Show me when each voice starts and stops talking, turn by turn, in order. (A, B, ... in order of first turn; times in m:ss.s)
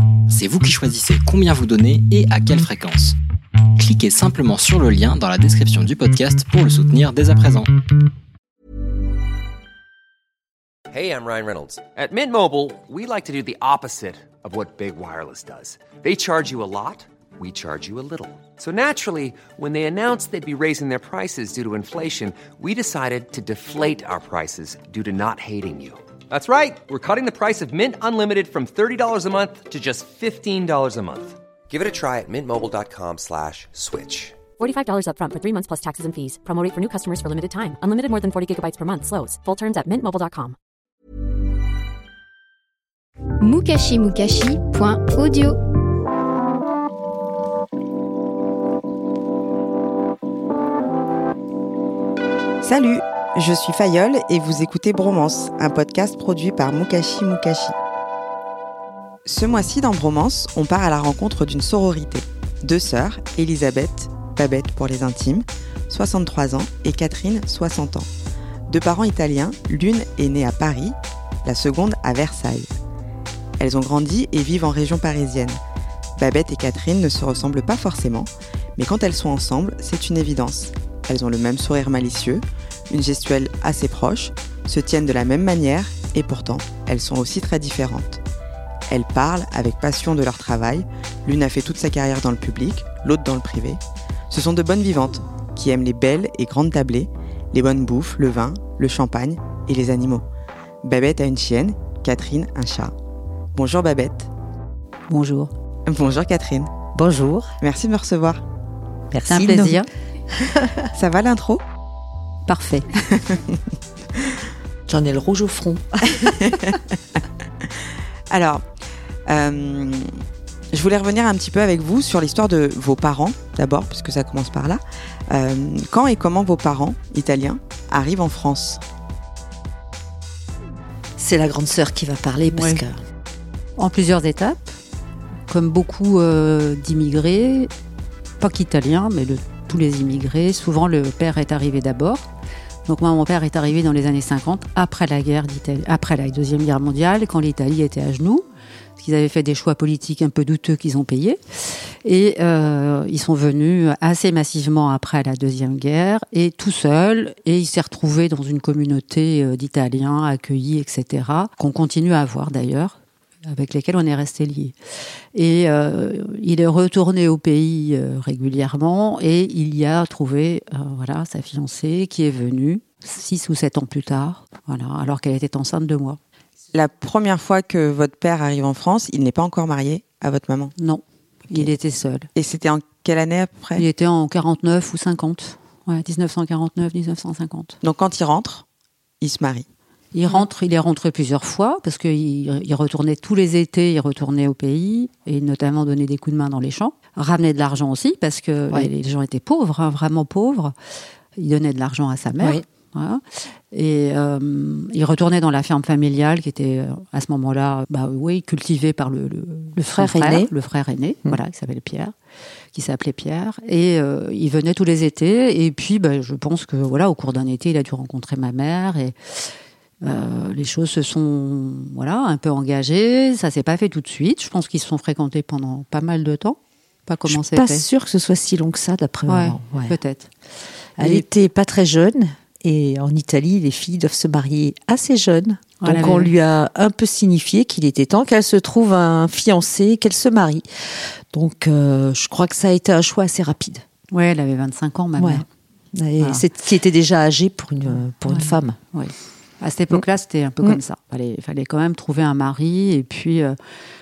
0:00.3-0:03.2 A
0:03.8-0:07.7 A
0:10.9-0:34.4 B
0:34.6-0:40.6 C
0:43.4-0:45.6 D
0:52.6-0:57.8 E
0:59.3-1:08.1 E
1:08.7-1:12.7 E
1:13.6-1:15.6 E
1:16.2-1:28.2 E
1:28.9-1:33.8 E
1:34.3-1:40.2 E
1:40.8-1:42.9 E
1:43.6-1:44.3 E
1:45.1-1:45.5 F
1:45.9-1:46.7 E
1:46.9-1:47.5 G
1:47.6-1:48.4 E
1:49.1-1:49.8 G
1:49.2-1:49.9 F
1:50.4-1:50.9 G
1:50.9-1:51.6 E
1:52.5-1:52.9 F
1:53.1-1:53.6 E
1:54.9-1:56.8 G
1:56.2-1:56.8 E
1:58.3-1:58.6 E
1:59.3-2:00.1 E
2:00.7-2:08.8 E
2:11.2-2:13.0 G
2:12.5-2:12.8 F
2:13.8-2:14.8 F
2:15.5-2:17.7 F
2:18.4-2:22.2 F
2:22.9-2:28.4 F
2:29.0-2:31.4 F
2:32.0-2:44.8 F
2:45.3-2:56.2 F
2:56.7-3:00.8 E
3:00.8-3:02.3 F
3:02.4-3:03.8 E
3:03.8-3:07.8 F
3:07.8-3:08.6 E
3:09.2-3:09.7 E
3:10.1-3:20.7 F
3:21.4-3:32.1 F
3:22.4-3:22.6 G
3:29.8-3:30.5 G
3:32.7-3:39.2 F
3:40.0-3:47.9 F
3:47.3-3:50.0 G
3:49.3-3:50.3 F
3:51.0-3:51.2 F
3:51.0-4:03.8 G
3:55.8-3:56.3 F
4:04.1-4:05.5 F
4:05.2-4:08.8 G
4:08.3-4:13.6 F